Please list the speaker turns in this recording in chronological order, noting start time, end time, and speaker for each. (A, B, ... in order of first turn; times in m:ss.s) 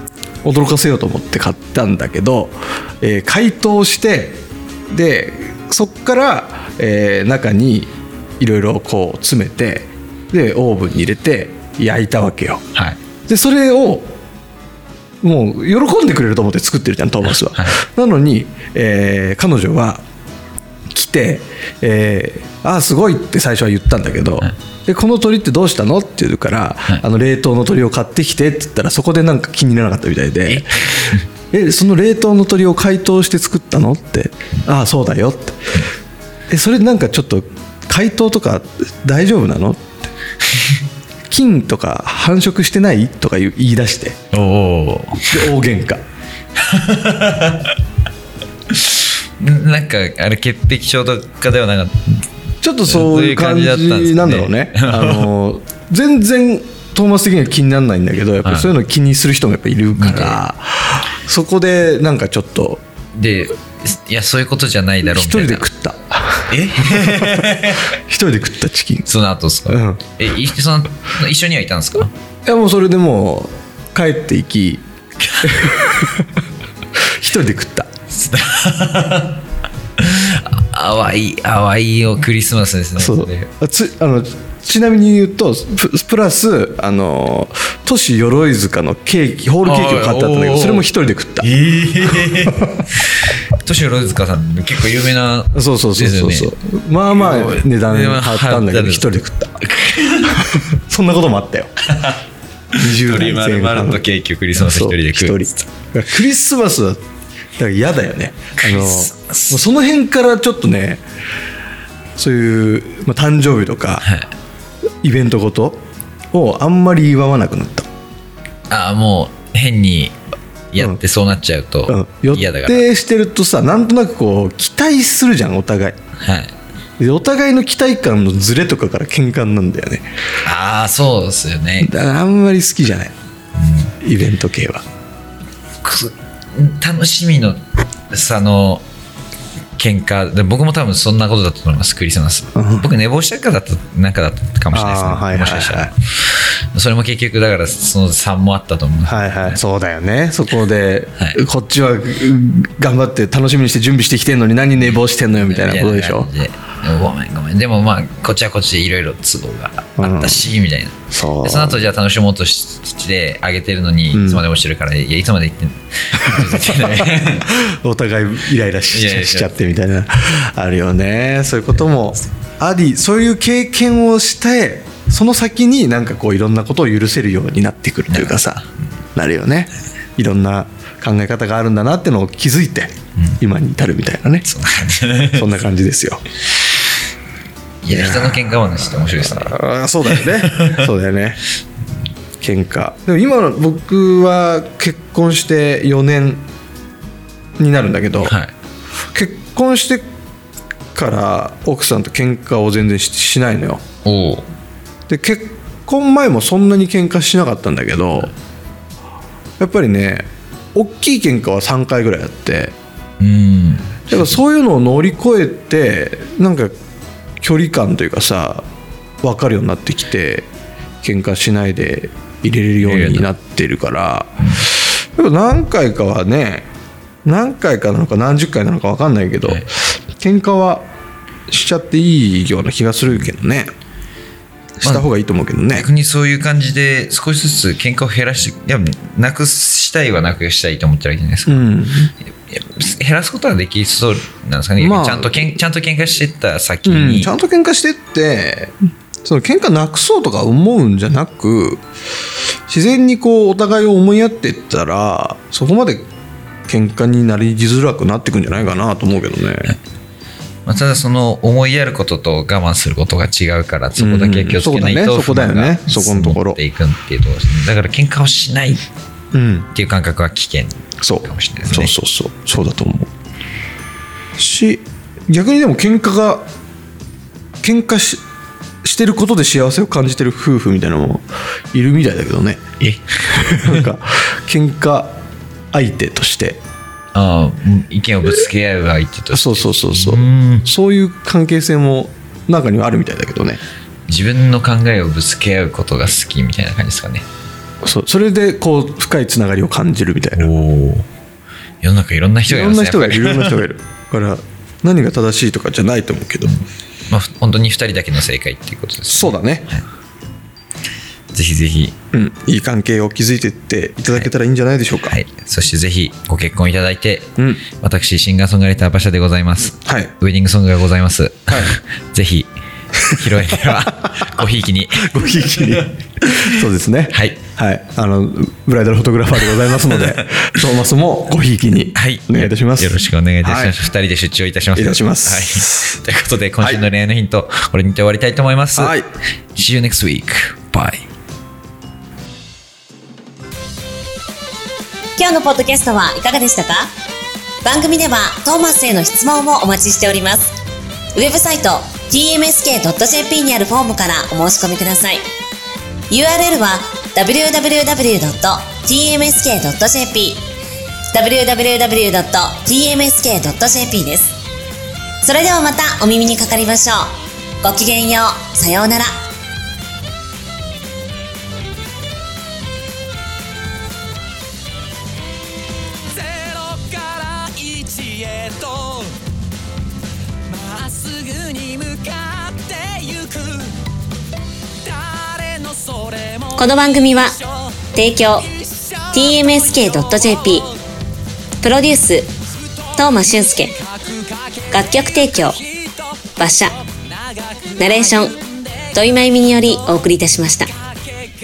0:00.4-0:12.6 A
0:13.3-0:14.1 A
0:15.2-0:20.0 A
0:20.9-0:30.9 A
0:30.4-0:31.2 B
0:31.5-0:35.8 A
0:36.5-0:40.1 A
0:41.3-0:44.2 A
0:44.3-0:45.5 B
0:45.3-0:46.0 A
0:46.6-0:47.8 B
0:48.7-0:52.2 B
0:52.6-1:02.8 A
0:52.9-0:55.3 B
0:58.4-0:58.7 B
1:00.0-1:00.4 B
1:03.1-1:05.7 B
1:05.0-1:09.1 A
1:06.5-1:07.9 B
1:09.0-1:12.1 B
1:09.7-1:10.0 A
1:12.4-1:14.8 A
1:15.2-1:15.7 B
1:15.4-1:16.4 A
1:17.0-1:17.9 A
1:18.1-1:19.4 B
1:20.0-1:23.5 B
1:23.0-1:31.5 A
1:29.6-1:30.9 B
1:31.4-1:36.5 B
1:32.1-1:32.8 A
1:35.5-1:39.7 A
1:37.1-1:39.1 B
1:39.6-1:40.6 B
1:40.3-1:41.7 A
1:41.9-1:42.2 B
1:42.7-1:44.0 A
1:42.7-1:45.4 B
1:44.5-1:47.0 A
1:47.6-1:51.0 A
1:48.6-1:49.6 B
1:52.2-1:54.0 A
1:54.0-1:54.3 B
1:55.0-1:57.9 A
1:58.7-2:00.1 B
2:00.7-2:02.8 B
2:00.8-2:01.0 A
2:01.9-2:06.0 A
2:06.2-2:06.5 B
2:07.0-2:10.1 A
2:10.4-2:11.9 B
2:11.8-2:13.1 A
2:13.6-2:13.9 B
2:14.0-2:14.8 A
2:15.8-2:17.6 B
2:18.1-2:18.8 B
2:19.8-2:29.6 B
2:22.5-2:22.9 A
2:24.7-2:25.9 A
2:29.0-2:36.3 A
2:34.8-2:47.5 B
2:40.0-2:40.5 A
2:41.1-2:41.8 A
2:44.1-2:44.4 A
2:46.1-2:58.6 A
2:48.9-2:49.7 B
2:58.1-2:58.6 B
2:59.1-3:04.4 A
3:04.5-3:05.5 B
3:05.3-3:06.2 A
3:07.8-3:09.6 B
3:07.9-3:08.5 A
3:09.2-3:11.4 A
3:10.1-3:10.8 B
3:12.4-3:16.4 A
3:17.6-3:18.4 A
3:18.2-3:18.5 B
3:19.1-3:20.0 A
3:20.9-3:23.8 A
3:24.0-3:24.4 B
3:25.1-3:28.3 A
3:29.6-3:32.7 A
3:33.2-3:34.4 B
3:34.1-3:36.7 A
3:37.4-3:38.6 A
3:39.2-3:40.5 A
3:41.0-3:46.7 A
3:42.8-3:43.3 B
3:44.4-3:44.7 B
3:47.2-3:50.8 A
3:51.5-3:53.7 A
3:54.8-3:55.9 A
3:55.7-4:01.7 B
4:01.4-4:02.1 A
4:02.5-4:07.3 B
4:04.8-4:05.6 A
4:06.8-4:11.8 A
4:12.7-4:16.1 A
4:16.7-4:19.8 A
4:20.6-4:28.8 B
4:24.0-4:26.6 A
4:29.3-4:29.7 A
4:29.7-4:31.9 B
4:31.0-4:33.1 A
4:34.4-4:36.5 A
4:37.6-4:38.2 A
4:38.8-4:42.6 A
4:42.8-4:43.9 B
4:43.3-4:45.2 A
4:45.7-4:46.6 A
4:47.1-4:50.7 B
4:49.3-4:53.6 A
4:54.1-4:57.2 B
4:57.8-5:00.5 A
5:00.4-5:01.0 B
5:01.8-5:03.6 B
5:02.5-5:06.6 A
5:06.4-5:09.8 B
5:09.1-5:09.7 A
5:11.3-5:11.9 B
5:12.1-5:15.2 A
5:15.1-5:26.5 B
5:17.4-5:17.6 A
5:19.8-5:20.1 A
5:21.5-5:21.7 A
5:25.0-5:33.8 A
5:27.1-5:27.4 B
5:29.8-5:30.2 B
5:31.9-5:38.9 B
5:34.7-5:35.9 A
5:38.7-5:39.1 A
5:39.6-5:41.0 B
5:45.2-5:46.9 C
5:47.6-5:50.5 C
5:51.1-5:55.2 C
5:56.1-6:00.4 C
6:01.1-6:04.3 C
6:05.2-6:09.1 C
6:16.8-6:18.7 D
6:20.8-6:23.7 D
6:25.5-6:26.4 D
6:26.5-6:27.4 C
6:27.9-6:28.5 C
6:29.1-6:30.7 C
6:31.6-6:32.3 C
6:32.9-6:33.8 C
6:34.7-6:35.6 C
6:36.4-6:36.8 C
6:37.8-6:38.4 C
6:38.9-6:40.7 C